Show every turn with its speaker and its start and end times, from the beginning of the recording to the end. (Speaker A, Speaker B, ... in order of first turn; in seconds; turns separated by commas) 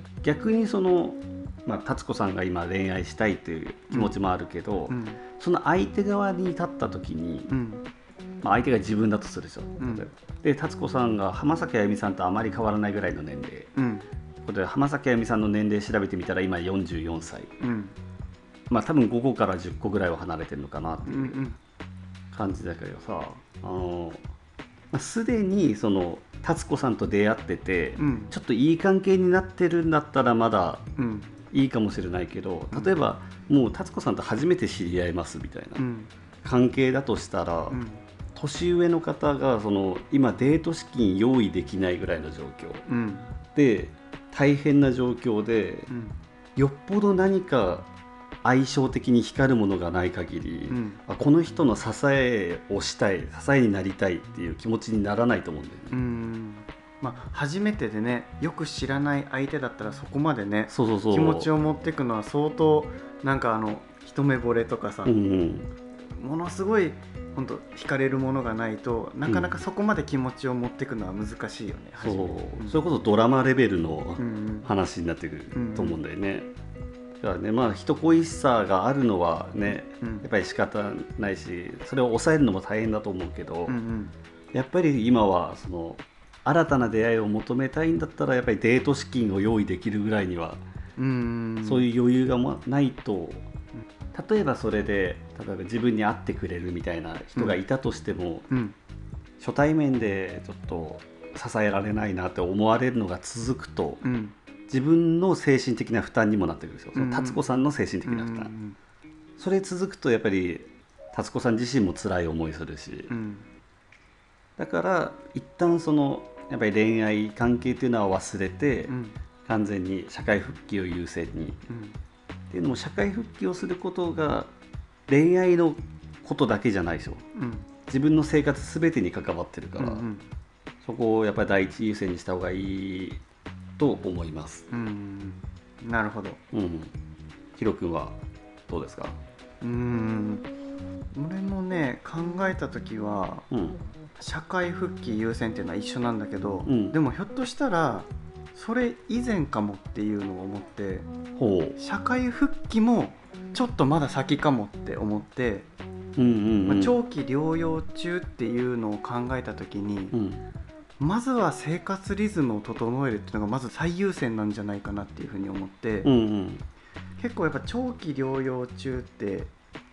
Speaker A: 0.2-7.5, Speaker B: 3.9-4.2, Speaker B: 4.9-5.2, Speaker B: 7.5-7.8, Speaker A: 8.4-13.7, Speaker B: 9.8-10.1, Speaker B: 13.8-14.1, Speaker A: 14.4-17.5, Speaker B: 17.6-17.9, Speaker A: 18.7-21.4, Speaker B: 21.0-21.6, Speaker A: 22.3-24.2, Speaker A: 24.9-30.9, Speaker B: 28.0-28.3, Speaker B: 31.0-31.3, Speaker A: 31.5-35.8, Speaker B: 32.7-33.0, Speaker B: 35.8-36.1, Speaker A: 36.4-37.8, Speaker B: 37.7-38.0, Speaker A: 38.3-42.8, Speaker B: 42.9-43.3, Speaker A: 43.5-45.9, Speaker B: 45.9-46.2, Speaker A: 46.5-47.9, Speaker A: 48.4-56.0, Speaker B: 50.7-51.0, Speaker B: 55.9-65.1, Speaker A: 60.7-61.5, Speaker A: 65.0-65.7, Speaker B: 66.1-72.8, Speaker A: 69.3-69.6, Speaker A: 72.0-76.5, Speaker B: 74.2-74.7, Speaker B: 75.5-76.0, Speaker A: 77.2-83.8, Speaker B: 80.0-80.3, Speaker B: 83.7-84.1, Speaker A: 84.5-90.6, Speaker B: 91.0-91.9, Speaker A: 91.6-93.5, Speaker A: 94.1-98.5, Speaker B: 98.5-98.8, Speaker A: 99.4-104.0, Speaker B: 104.0-104.3, Speaker A: 104.7-108.5, Speaker B: 106.9-107.4, Speaker B: 108.0-108.8, Speaker A: 109.4-113.1, Speaker B: 113.1-113.5, Speaker A: 114.6-118.9, Speaker B: 118.9-119.2, Speaker A: 119.5-121.6, Speaker B: 121.7-122.0, Speaker A: 122.5-124.5, Speaker A: 125.1-127.2, Speaker B: 127.3-127.7, Speaker A: 127.9-130.0, Speaker B: 129.8-130.3, Speaker A: 130.8-133.2, Speaker A: 133.8-134.7, Speaker B: 134.7-136.4, Speaker A: 136.5-136.9, Speaker A: 137.6-139.2, Speaker B: 139.6-140.5, Speaker B: 141.1-143.5, Speaker A: 143.5-143.8, Speaker B: 144.2-151.1, Speaker A: 146.6-147.0, Speaker A: 151.4-151.8, Speaker B: 151.8-155.7, Speaker A: 156.2-157.0, Speaker B: 156.7-160.1, Speaker A: 160.1-160.4, Speaker B: 161.0-166.1, Speaker A: 166.0-166.6, Speaker B: 167.2-169.5